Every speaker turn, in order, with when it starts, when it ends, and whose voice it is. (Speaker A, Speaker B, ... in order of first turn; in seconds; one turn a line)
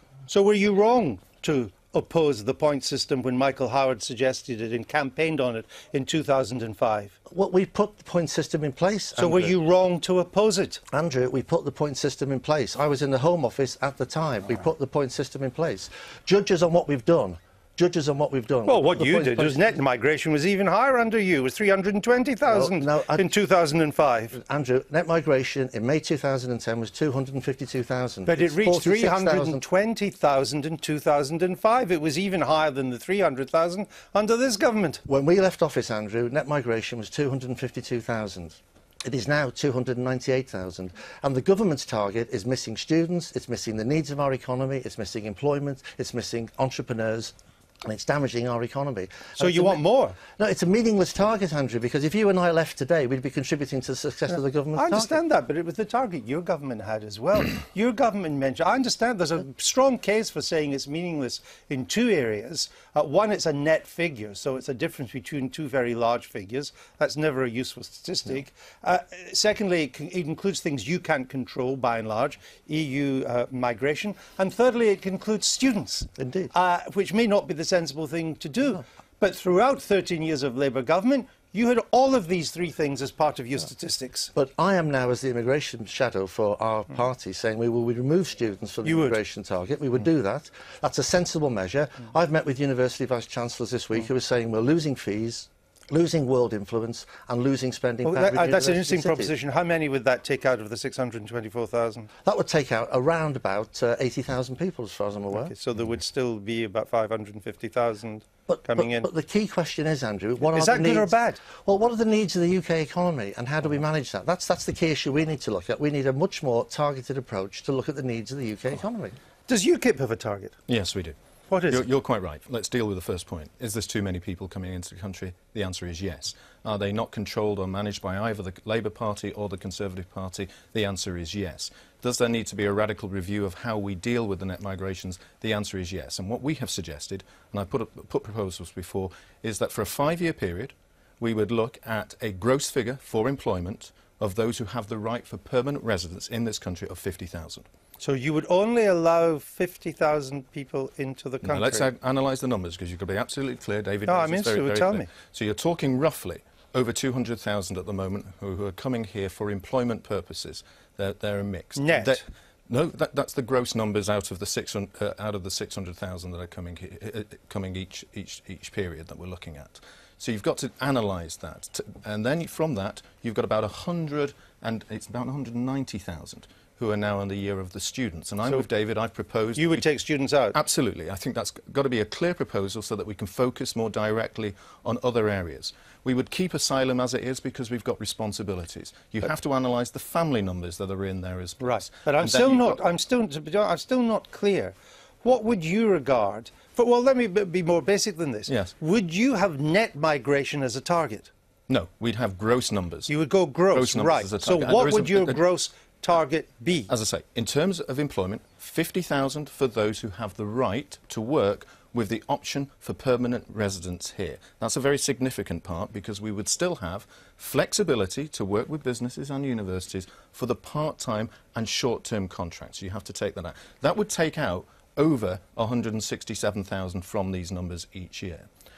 Speaker A: 0.3-7.1
Speaker B: 7.3-9.5
Speaker A: 9.2-10.8
Speaker B: 10.9-19.6
Speaker A: 18.6-24.4
Speaker B: 22.5-23.2
Speaker B: 24.3-29.6
Speaker A: 28.2-35.0
Speaker B: 35.0-55.2
Speaker A: 49.4-50.1
Speaker A: 54.8-84.3
Speaker B: 76.2-76.5
Speaker B: 84.3-99.3
Speaker A: 88.8-89.2
Speaker A: 98.0-102.1
Speaker B: 102.2-105.5
Speaker A: 105.3-109.1
Speaker B: 108.5-111.1
Speaker A: 110.4-111.4
Speaker B: 111.6-119.2
Speaker A: 119.5-120.5
Speaker C: 120.7-147.7
Speaker A: 121.5-121.9
Speaker A: 148.0-151.9
Speaker C: 151.4-179.9
Speaker A: 154.1-155.1
Speaker A: 161.8-162.2
Speaker A: 179.6-180.6
Speaker C: 180.5-192.8
Speaker A: 191.6-201.3
Speaker C: 198.5-198.7
Speaker C: 201.7-203.2
Speaker A: 203.1-206.9
Speaker C: 203.7-205.4
Speaker C: 206.9-228.5